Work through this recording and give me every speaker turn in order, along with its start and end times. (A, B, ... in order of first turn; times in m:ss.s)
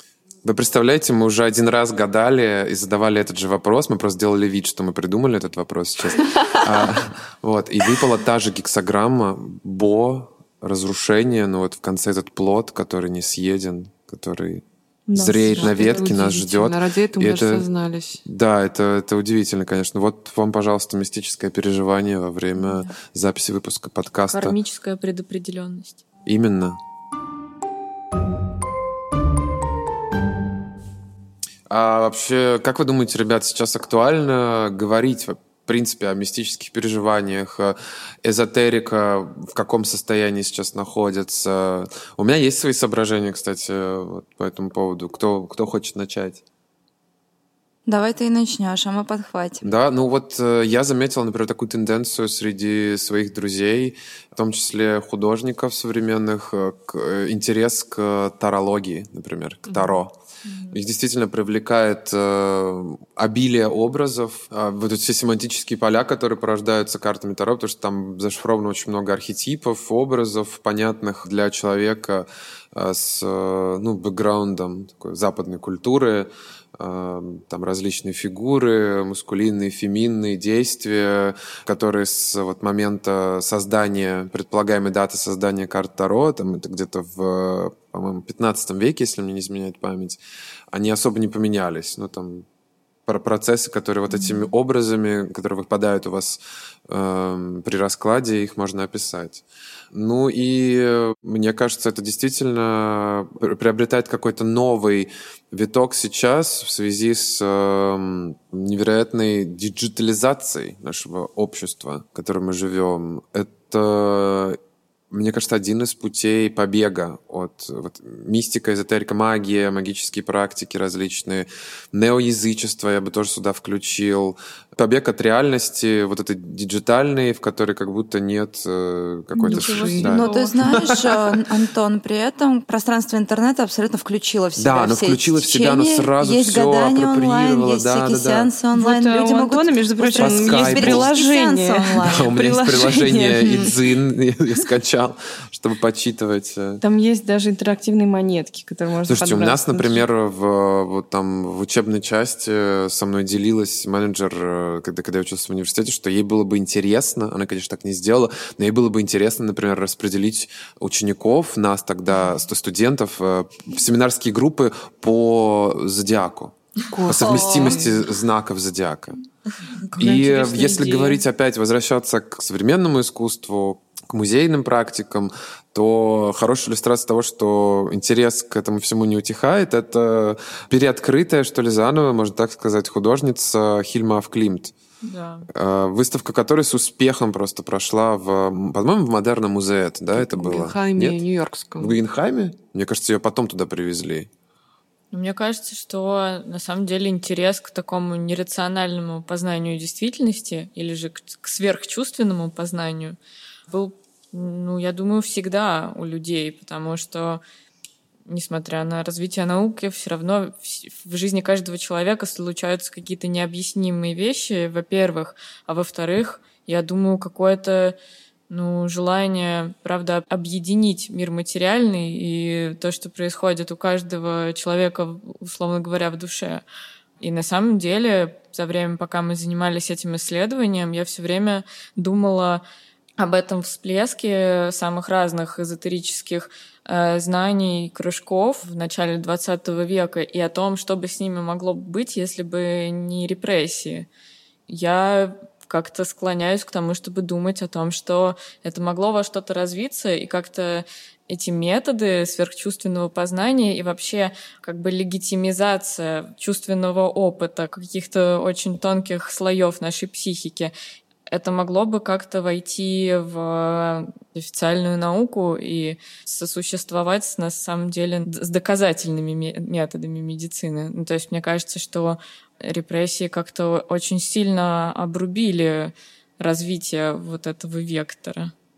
0:00.4-0:17.7 A
0:15.1-0:16.1 B
0:15.5-0:18.2 C
0:18.2-0:24.6 A
0:24.3-0:26.0 D
0:26.2-0:26.8 A
0:31.7-0:46.4 A
0:47.8-0:49.6 E
0:49.6-1:00.1 A
0:59.7-1:00.0 C
1:00.4-1:00.8 D
1:00.7-1:30.2 A
1:30.7-1:32.4 A
1:33.0-1:54.6 A
1:34.1-1:34.5 D
1:55.1-2:11.5 A
2:09.4-2:10.8 B
2:09.4-2:10.2 C
2:09.5-2:10.5 D
2:10.0-2:22.3 E
2:14.6-2:18.5 A
2:18.7-2:23.7 B
2:20.2-2:21.1 A
2:22.0-2:26.8 A
2:26.8-2:30.0 B
2:29.1-2:49.2 A
2:46.9-2:48.0 C
2:47.1-2:47.8 E
2:49.9-2:51.2 B
2:50.0-3:04.7 A
3:05.0-3:05.5 D
3:05.5-3:11.2 A
3:10.1-3:12.0 C
3:11.8-3:14.3 A
3:15.1-3:23.2 D
3:23.7-3:27.4 D
3:28.2-3:38.0 D
3:38.5-3:46.6 D
3:47.2-3:52.6 D
3:53.2-4:04.1 D
4:04.7-4:20.7 D
4:21.3-4:38.5 D